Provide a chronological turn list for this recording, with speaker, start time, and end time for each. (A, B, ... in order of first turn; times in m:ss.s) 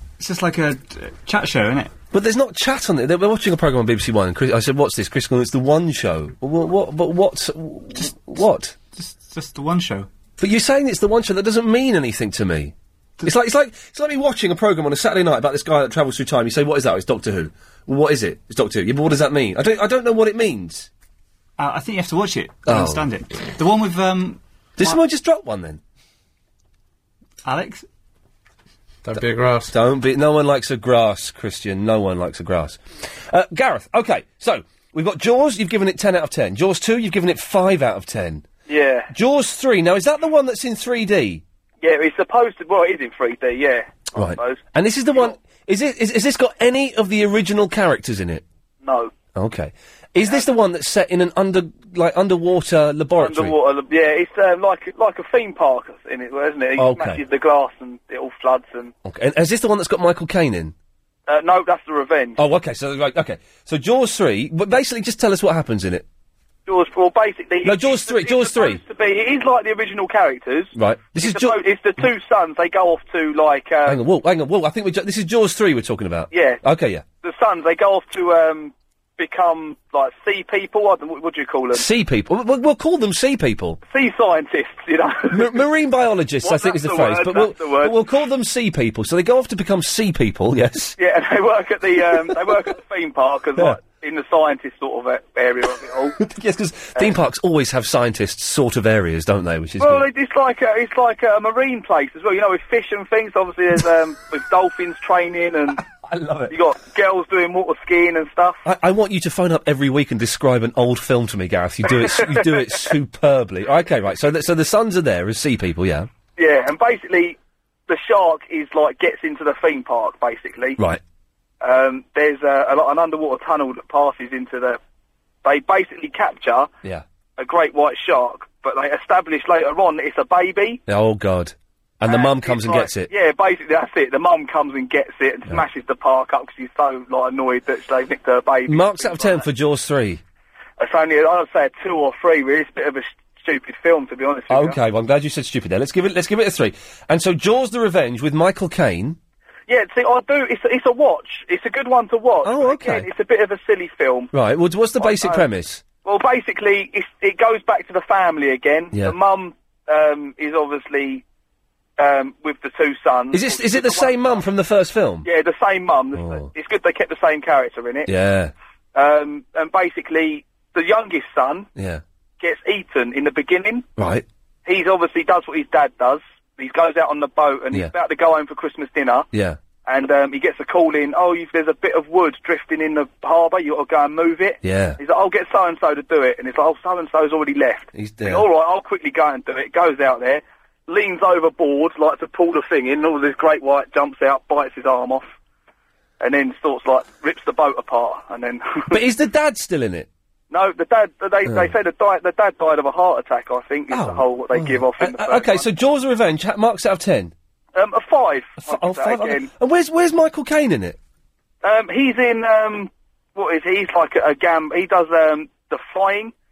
0:00.2-0:01.9 A
0:02.1-0:08.8 B
0:08.9-0:10.1 A
0:10.4-0:20.9 B
0:21.6-0:25.0 A
0:22.7-0:23.1 B
0:24.8-0:25.8 B
0:27.4-0:27.8 A
0:29.1-0:38.5 B
0:38.7-0:39.1 C
0:39.1-0:41.4 B
0:41.8-0:45.4 C
0:44.1-0:48.4 B
0:48.8-0:49.1 C
0:49.4-0:53.6 B
0:53.2-0:58.9 C
0:56.8-0:57.2 B
0:59.0-1:00.8 B
1:01.3-1:02.4 C
1:02.4-1:06.1 B
1:06.7-1:14.0 C
1:07.6-1:08.8 B
1:10.8-1:11.6 B
1:13.9-1:17.0 B
1:16.3-1:16.6 C
1:17.2-1:21.9 C
1:21.7-1:23.8 B
1:23.9-1:25.6 C
1:25.3-1:31.0 B
1:26.4-1:28.0 C
1:31.0-1:36.2 C
1:36.2-1:40.1 B
1:39.8-1:45.8 C
1:45.8-1:46.6 B
1:46.5-1:48.6 C
1:48.6-1:56.1 B
1:52.0-1:52.5 C
1:56.4-1:57.4 C
1:57.9-2:00.8 C
2:01.6-2:04.8 C
2:05.4-2:06.7 C
2:07.4-2:10.8 C
2:10.9-2:13.1 B
2:12.0-2:19.5 C
2:18.7-2:20.2 B
2:20.8-2:24.8 C
2:24.5-2:29.2 B
2:29.7-2:34.3 C
2:32.4-2:33.1 B
2:34.3-2:35.8 B
2:35.0-2:35.4 C
2:36.0-2:41.2 C
2:42.0-2:44.4 C
2:43.3-2:45.3 B
2:45.2-2:48.1 C
2:46.1-2:46.5 B
2:48.1-2:48.5 B
2:49.0-2:51.7 C
2:51.8-2:52.0 B
2:52.4-2:53.9 C
2:54.0-2:54.2 B
2:54.7-2:59.3 C
2:59.3-2:59.6 B
2:59.8-3:15.3 C
3:04.6-3:05.0 B
3:07.9-3:08.5 B
3:16.2-3:19.0 C
3:18.9-3:20.1 B
3:20.5-3:25.7 C
3:21.5-3:21.7 B
3:23.9-3:27.3 B
3:27.8-3:29.5 C
3:28.6-3:31.0 B
3:31.6-3:36.3 C